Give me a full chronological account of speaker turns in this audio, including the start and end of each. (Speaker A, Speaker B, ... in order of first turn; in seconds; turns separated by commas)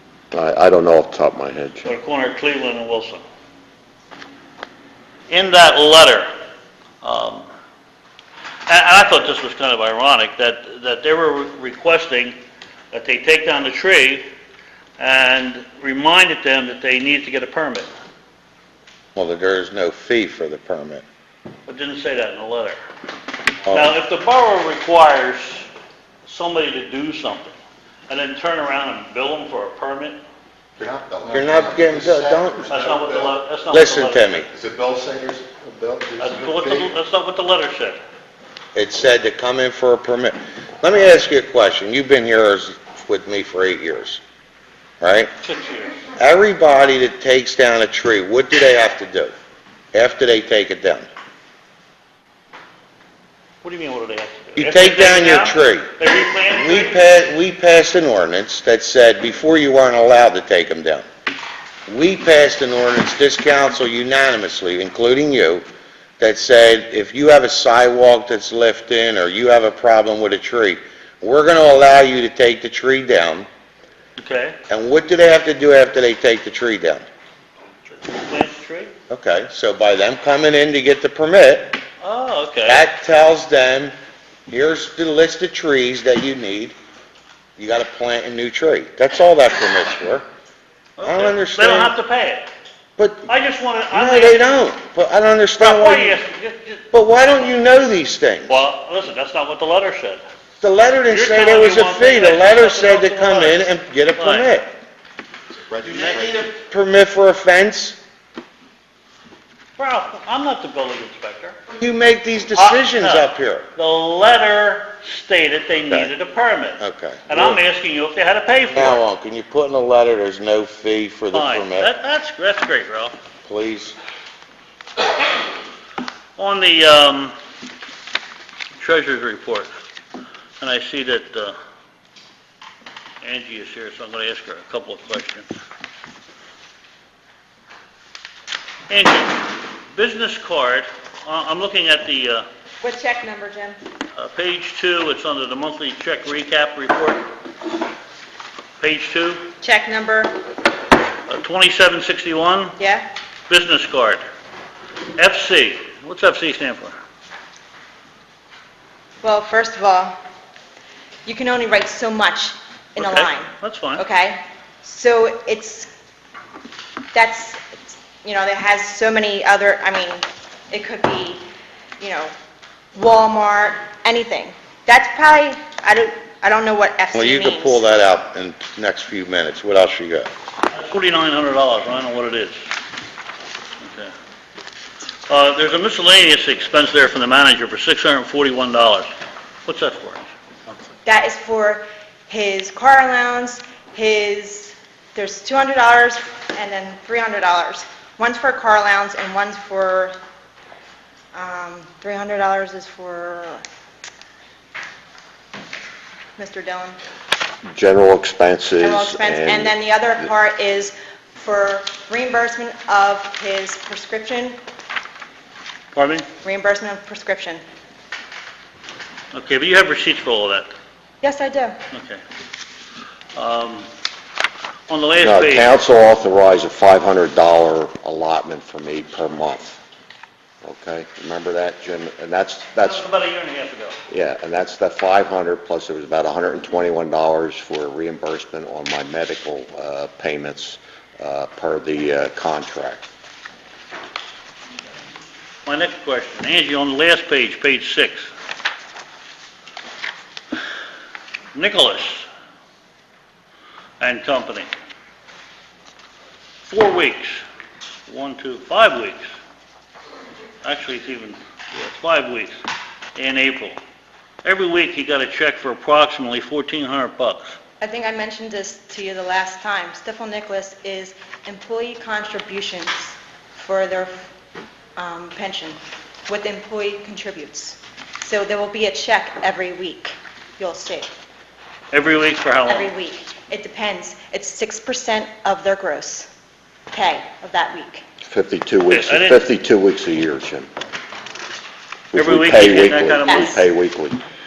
Speaker A: 0.3-1.9, Speaker B: 1.8-3.2, Speaker B: 5.3-6.3, Speaker B: 7.0-7.5, Speaker B: 8.7-12.4, Speaker B: 12.9-14.2, Speaker B: 15.0-17.9, Speaker C: 19.1-21.0, Speaker B: 21.7-22.8, Speaker C: 23.7-23.9, Speaker B: 23.7-25.7, Speaker B: 26.2-27.6, Speaker B: 28.1-30.2, Speaker D: 30.8-33.1, Speaker C: 31.3-32.7, Speaker B: 32.7-34.5, Speaker C: 33.7-34.5, Speaker D: 34.6-36.3, Speaker B: 36.2-38.0, Speaker C: 38.7-44.2, Speaker C: 45.0-45.3, Speaker B: 45.4-46.0, Speaker C: 46.2-49.3, Speaker C: 49.9-51.1, Speaker B: 53.6-57.1, Speaker C: 54.5-55.9, Speaker C: 56.5-61.1, Speaker C: 61.9-65.6, Speaker C: 66.2-73.5, Speaker B: 74.2-74.6, Speaker C: 74.7-77.0, Speaker B: 78.0-78.9, Speaker C: 79.1-81.8, Speaker B: 82.0-82.8, Speaker C: 82.7-83.9, Speaker C: 84.5-86.8, Speaker C: 87.6-90.2, Speaker B: 91.0-92.5, Speaker C: 91.0-91.9, Speaker C: 93.0-93.3, Speaker B: 93.2-94.6, Speaker C: 93.9-96.2, Speaker B: 95.6-96.8, Speaker C: 96.9-98.6, Speaker B: 98.5-100.2, Speaker C: 100.6-104.7, Speaker B: 101.1-104.5, Speaker C: 105.8-108.0, Speaker B: 109.8-111.6, Speaker C: 111.7-113.7, Speaker B: 112.5-119.0, Speaker C: 116.8-117.6, Speaker C: 118.7-121.9, Speaker B: 121.3-123.2, Speaker C: 123.4-124.0, Speaker B: 126.3-127.3, Speaker B: 128.8-129.7, Speaker B: 130.6-131.6, Speaker B: 133.2-135.5, Speaker B: 138.9-142.4, Speaker E: 142.8-143.8, Speaker B: 144.2-147.2, Speaker B: 148.8-149.4, Speaker E: 149.6-150.4, Speaker B: 151.3-152.8, Speaker E: 152.8-153.1, Speaker B: 153.5-154.2, Speaker B: 155.2-157.0, Speaker E: 159.2-160.2, Speaker E: 161.2-165.9, Speaker B: 163.0-164.0, Speaker E: 167.1-171.4, Speaker E: 172.0-172.3, Speaker E: 172.9-177.8, Speaker C: 177.1-180.3, Speaker B: 180.7-182.6, Speaker B: 183.8-184.1, Speaker B: 185.3-189.1, Speaker B: 189.6-190.3, Speaker E: 191.0-200.1, Speaker E: 201.3-203.6, Speaker E: 206.4-207.0, Speaker A: 207.7-210.3, Speaker E: 208.8-214.6, Speaker B: 215.9-216.3, Speaker E: 216.4-217.6, Speaker B: 219.3-220.7, Speaker E: 221.2-221.8, Speaker B: 221.9-222.2, Speaker B: 223.3-223.9, Speaker B: 224.9-225.7, Speaker A: 225.2-229.8, Speaker A: 230.6-233.1, Speaker B: 232.8-234.0, Speaker A: 234.1-243.0, Speaker B: 245.6-248.3, Speaker B: 251.5-252.3, Speaker B: 254.0-254.7, Speaker B: 256.6-257.4, Speaker B: 258.1-259.3, Speaker B: 260.6-262.6, Speaker B: 263.1-263.8, Speaker B: 264.4-267.6, Speaker E: 267.8-274.3, Speaker E: 274.9-281.1, Speaker B: 281.9-282.9, Speaker E: 282.7-286.3, Speaker E: 286.9-288.0, Speaker A: 288.2-290.7, Speaker B: 288.9-289.4, Speaker A: 292.1-294.2, Speaker B: 292.1-293.6, Speaker E: 293.3-293.5